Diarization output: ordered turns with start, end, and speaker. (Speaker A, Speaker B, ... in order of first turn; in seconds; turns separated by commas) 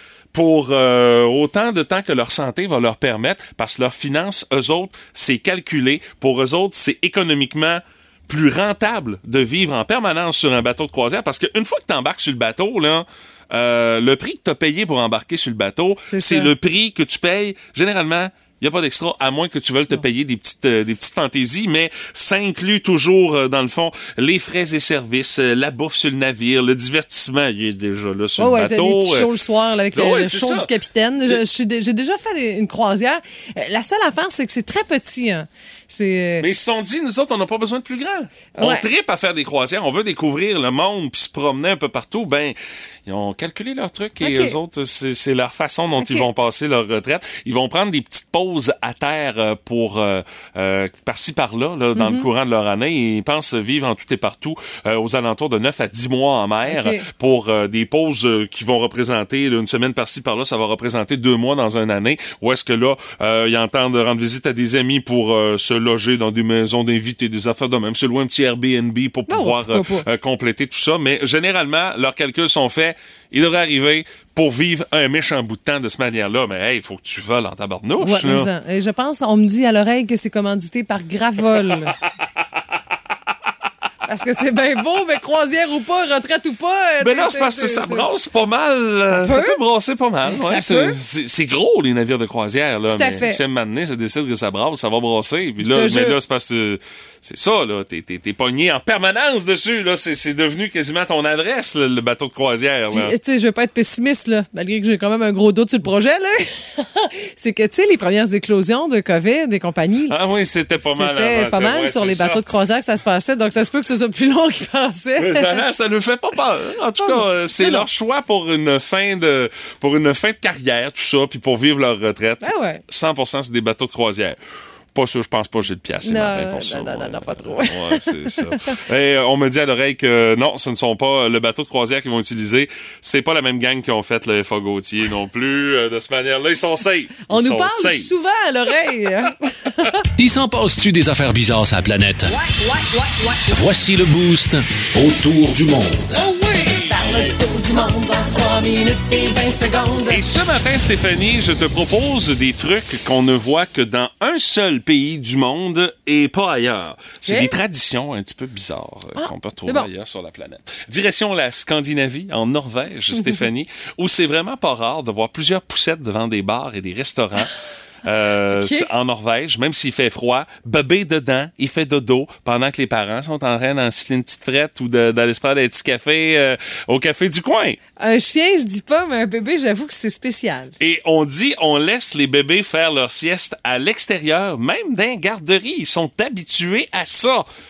Speaker A: 0.3-29.3, Speaker B: 16.1-16.5, Speaker B: 28.4-36.5, Speaker A: 29.9-30.7, Speaker A: 36.4-42.5, Speaker B: 38.6-38.9, Speaker A: 43.1-78.5, Speaker B: 44.2-44.6, Speaker B: 46.0-46.3, Speaker B: 52.0-52.3, Speaker B: 56.6-57.0, Speaker B: 69.3-70.0, Speaker B: 78.0-82.0, Speaker B: 84.1-88.1, Speaker A: 87.0-103.2, Speaker B: 89.1-89.6, Speaker B: 90.3-91.0, Speaker B: 92.9-93.4, Speaker B: 95.6-96.2, Speaker B: 102.9-110.2, Speaker A: 110.1-112.4, Speaker B: 110.8-115.6, Speaker A: 115.2-124.4, Speaker B: 117.0-117.9, Speaker B: 122.4-122.8, Speaker A: 124.9-138.1, Speaker B: 126.0-128.1, Speaker B: 137.3-139.9, Speaker C: 140.2-142.4, Speaker B: 142.6-143.3, Speaker C: 143.4-146.2, Speaker B: 146.2-150.2, Speaker A: 150.1-167.5, Speaker B: 157.3-157.5, Speaker B: 159.2-159.9, Speaker B: 163.2-163.4, Speaker A: 168.1-177.8, Speaker B: 168.5-168.9, Speaker B: 178.0-180.7, Speaker A: 180.8-187.4